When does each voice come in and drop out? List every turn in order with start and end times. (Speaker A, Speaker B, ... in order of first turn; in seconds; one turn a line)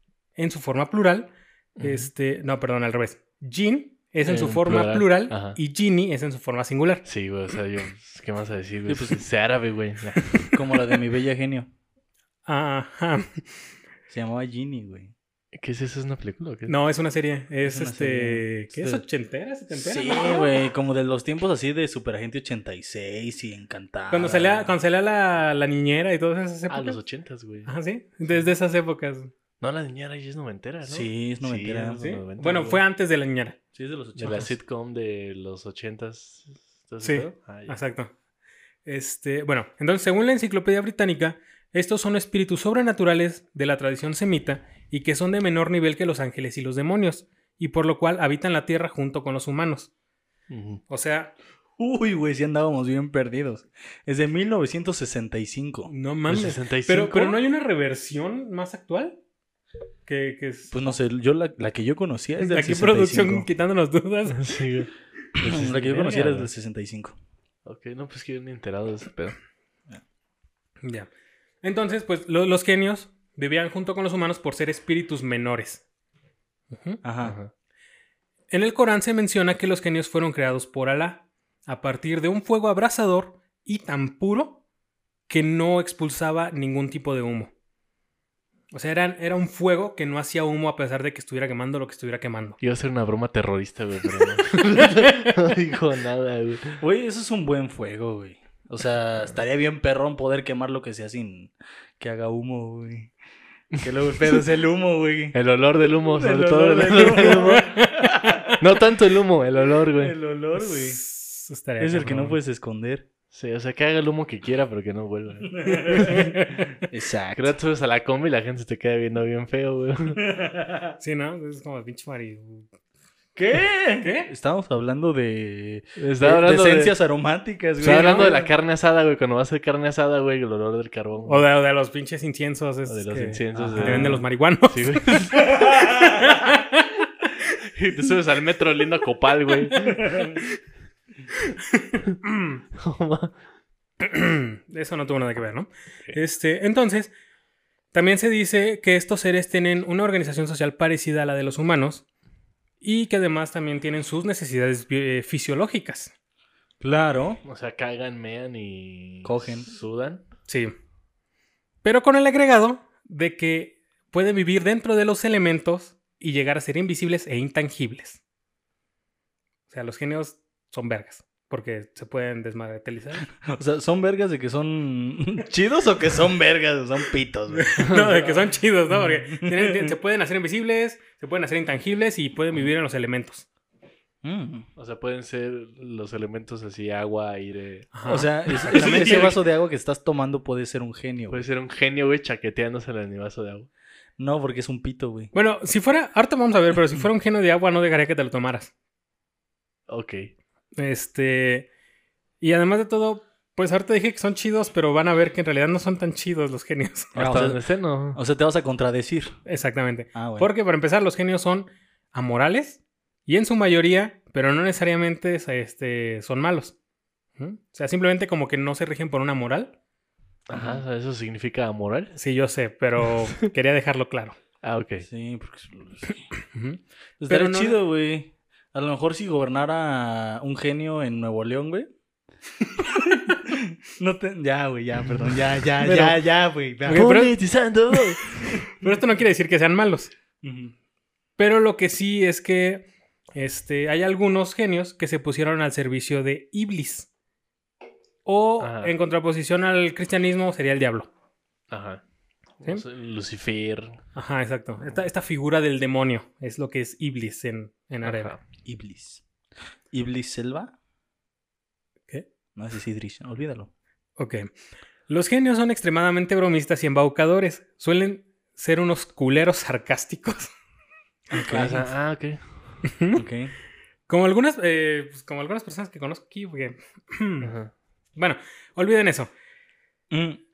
Speaker A: 0.4-7.0
Speaker B: 1.8-2.1
Speaker B: 4.2-5.6
Speaker B: 7.0-10.5
Speaker C: 8.9-9.2
Speaker C: 10.5-11.7
Speaker A: 12.4-13.4
Speaker C: 14.1-15.1
Speaker B: 15.5-16.7
Speaker A: 16.7-20.5
Speaker C: 17.6-19.0
Speaker C: 19.7-24.8
Speaker A: 24.1-27.0
Speaker B: 26.7-27.7
Speaker A: 27.6-29.3
Speaker B: 29.6-32.8
Speaker C: 30.8-32.0
Speaker A: 32.0-33.6
Speaker C: 33.7-34.5
Speaker B: 34.1-37.8
Speaker A: 37.0-38.1
Speaker A: 38.9-49.9
Speaker B: 50.5-50.8
Speaker A: 50.9-51.3
Speaker C: 51.8-55.9
Speaker A: 55.9-59.2
Speaker B: 56.3-57.4
Speaker A: 60.1-60.7
Speaker C: 60.7-63.5
Speaker A: 62.4-64.5
Speaker B: 64.3-66.5
Speaker C: 65.4-67.1
Speaker B: 67.6-69.3
Speaker A: 70.8-71.1
Speaker A: 71.6-75.8
Speaker A: 76.7-77.0
Speaker C: 77.0-77.4
Speaker B: 77.2-77.5
Speaker A: 78.5-84.6
Speaker A: 85.3-87.5
Speaker A: 88.7-92.6
Speaker B: 92.6-96.8
Speaker A: 94.8-95.3
Speaker C: 96.8-103.1
Speaker C: 103.8-105.3
Speaker B: 105.3-107.8
Speaker C: 106.0-108.5
Speaker A: 107.4-108.2
Speaker B: 108.5-110.2
Speaker C: 110.0-111.0
Speaker A: 110.6-112.4
Speaker C: 111.8-113.0
Speaker B: 113.3-116.3
Speaker C: 115.5-117.5
Speaker A: 115.7-116.7
Speaker B: 117.3-120.2
Speaker C: 120.2-120.9
Speaker A: 121.0-122.7
Speaker C: 123.3-128.5
Speaker A: 124.0-124.3
Speaker B: 126.0-126.9
Speaker B: 127.8-131.4
Speaker A: 127.8-128.3
Speaker A: 131.2-137.2
Speaker B: 132.9-135.6
Speaker C: 133.5-134.2
Speaker B: 137.7-140.5
Speaker A: 141.7-142.6
Speaker B: 142.8-143.3
Speaker A: 144.0-147.1
Speaker A: 147.9-152.0
Speaker A: 152.8-156.1
Speaker C: 156.8-157.4
Speaker B: 157.4-160.2
Speaker C: 159.2-159.7
Speaker A: 161.8-168.2
Speaker A: 169.7-173.3
Speaker C: 173.4-177.9
Speaker A: 177.5-183.4
Speaker B: 177.8-178.4
Speaker C: 178.9-179.9
Speaker C: 184.2-184.7
Speaker B: 184.8-188.0
Speaker A: 187.9-189.3
Speaker C: 188.1-191.4
Speaker B: 188.5-189.3
Speaker B: 191.3-193.7
Speaker C: 194.2-195.3
Speaker A: 195.3-198.7
Speaker B: 199.9-200.3
Speaker A: 200.8-201.7
Speaker A: 202.4-207.2
Speaker B: 207.1-208.2
Speaker C: 207.2-207.6
Speaker C: 208.1-209.3
Speaker A: 209.4-216.7
Speaker C: 210.1-210.5
Speaker A: 217.4-219.7
Speaker B: 220.5-222.1
Speaker C: 220.5-220.8
Speaker A: 222.1-224.3
Speaker B: 224.6-225.1
Speaker C: 225.0-226.2
Speaker A: 226.4-227.8
Speaker C: 227.2-231.9
Speaker C: 232.9-237.1
Speaker A: 235.8-236.1
Speaker A: 236.9-237.3
Speaker B: 236.9-238.6
Speaker A: 238.6-240.1
Speaker C: 240.4-240.7
Speaker A: 241.4-247.1
Speaker A: 248.2-251.1
Speaker B: 248.6-248.9
Speaker B: 251.7-252.0
Speaker B: 252.6-254.0
Speaker A: 254.1-258.3
Speaker B: 258.0-258.4
Speaker C: 258.6-259.2
Speaker C: 259.9-260.7
Speaker C: 262.6-263.7
Speaker A: 264.2-264.5
Speaker A: 265.1-270.5
Speaker C: 271.3-271.9
Speaker B: 271.5-272.4
Speaker A: 272.8-273.2
Speaker C: 273.1-273.5
Speaker A: 274.1-277.5
Speaker B: 277.4-277.7
Speaker A: 278.2-279.3
Speaker C: 280.1-280.4